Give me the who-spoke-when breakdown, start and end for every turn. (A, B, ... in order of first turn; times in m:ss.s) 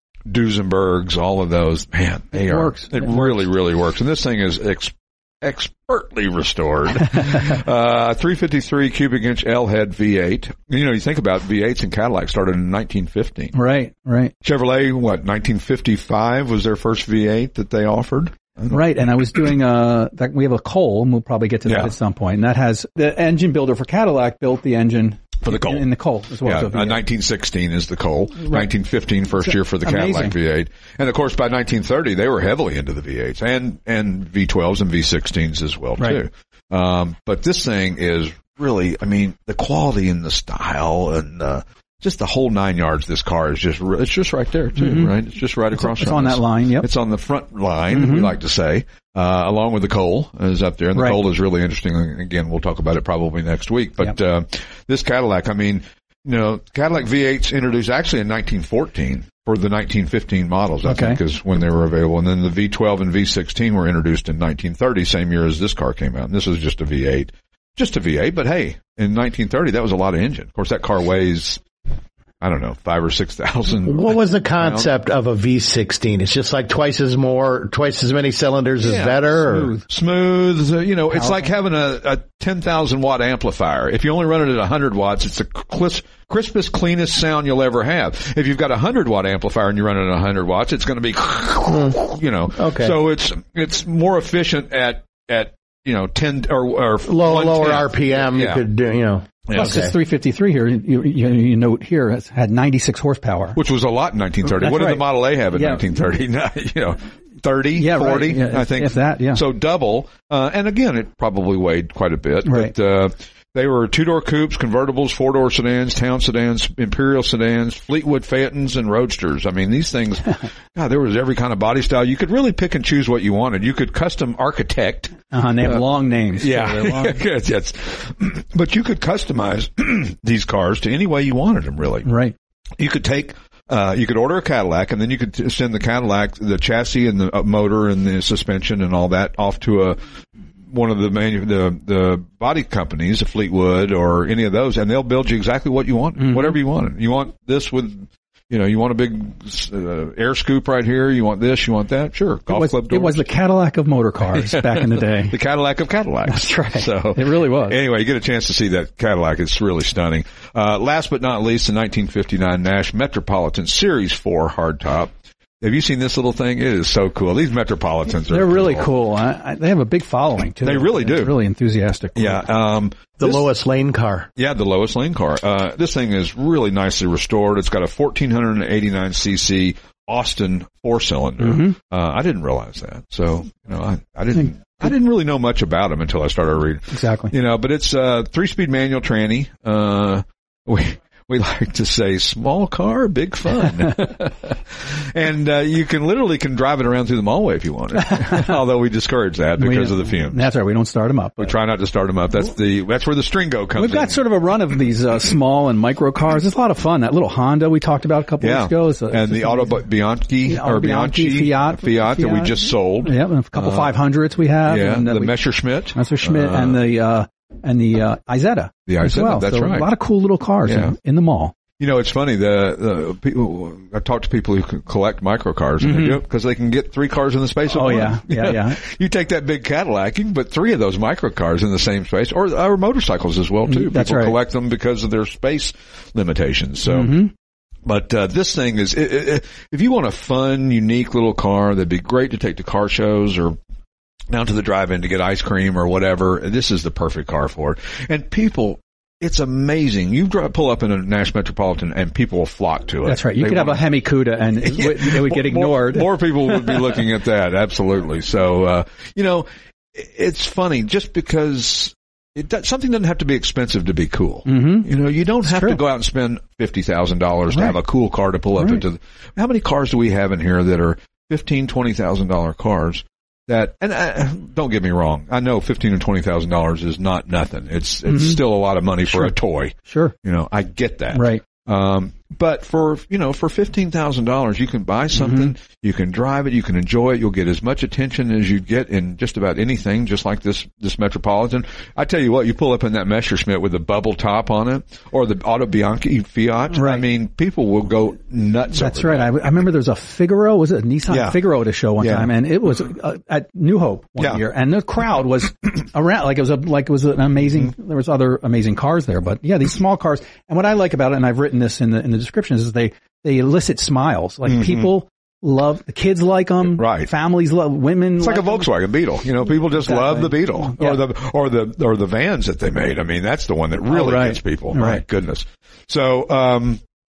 0:00.3-0:13.6 A
0:02.3-0:03.5 B
0:13.5-0:14.3 B
0:14.4-0:19.4 A
0:18.7-0:27.0 B
0:21.7-0:21.9 A
0:25.4-0:25.9 A
0:26.4-1:11.6 A
0:28.4-0:28.7 B
0:29.4-0:30.4 B
0:44.8-0:45.1 B
0:45.7-0:46.9 B
0:47.9-0:48.3 B
0:51.0-0:51.2 B
1:00.8-1:01.2 B
1:12.4-1:14.9 A
1:13.9-1:19.8 C
1:18.8-1:38.6 A
1:19.5-1:19.8 B
1:21.1-1:21.5 B
1:31.7-1:33.0 C
1:37.1-1:39.9 C
1:39.5-1:39.8 A
1:39.5-1:43.6 B
1:43.6-2:12.1 A
1:44.4-1:45.8 B
1:47.8-1:49.4 B
1:52.4-1:52.7 B
2:05.3-2:07.2 B
2:12.0-2:12.4 B
2:12.8-2:20.0 A
2:20.7-2:33.3 A
2:26.2-2:26.6 B
2:32.5-2:35.4 B
2:34.3-2:48.9 A
2:36.3-2:37.8 B
2:48.3-2:52.5 B
2:50.6-2:51.4 A
2:52.2-2:53.5 A
2:53.2-2:54.3 C
2:54.4-3:20.5 A
3:01.4-3:01.8 B
3:06.9-3:07.3 B
3:18.0-3:18.5 B
3:19.6-3:21.5 B
3:21.4-3:24.3 A
3:23.8-3:29.8 B
3:28.4-3:34.0 A
3:30.4-3:35.3 B
3:34.6-3:36.8 A
3:36.0-3:41.5 B
3:38.9-3:39.9 A
3:40.6-3:41.0 A
3:41.8-3:57.2 A
3:45.8-3:46.2 B
3:47.7-3:48.8 B
3:53.7-3:54.4 B
3:56.8-3:57.3 B
3:57.8-4:03.6 A
4:04.3-4:13.8 A
4:13.0-4:16.9 B
4:14.6-4:59.4 A
4:24.5-4:24.9 B
4:25.4-4:25.8 B
4:27.5-4:27.8 B
4:38.1-4:38.4 B
4:39.1-4:39.3 B
4:39.9-4:40.1 B
4:41.1-4:41.4 B
4:45.1-4:45.5 B
4:56.7-4:57.0 B
4:58.7-5:18.7 B
5:01.1-5:02.3 A
5:04.2-5:04.4 A
5:14.5-5:14.9 A
5:16.6-5:17.1 A
5:18.2-5:26.8 A
5:19.8-5:21.0 B
5:23.9-5:25.0 B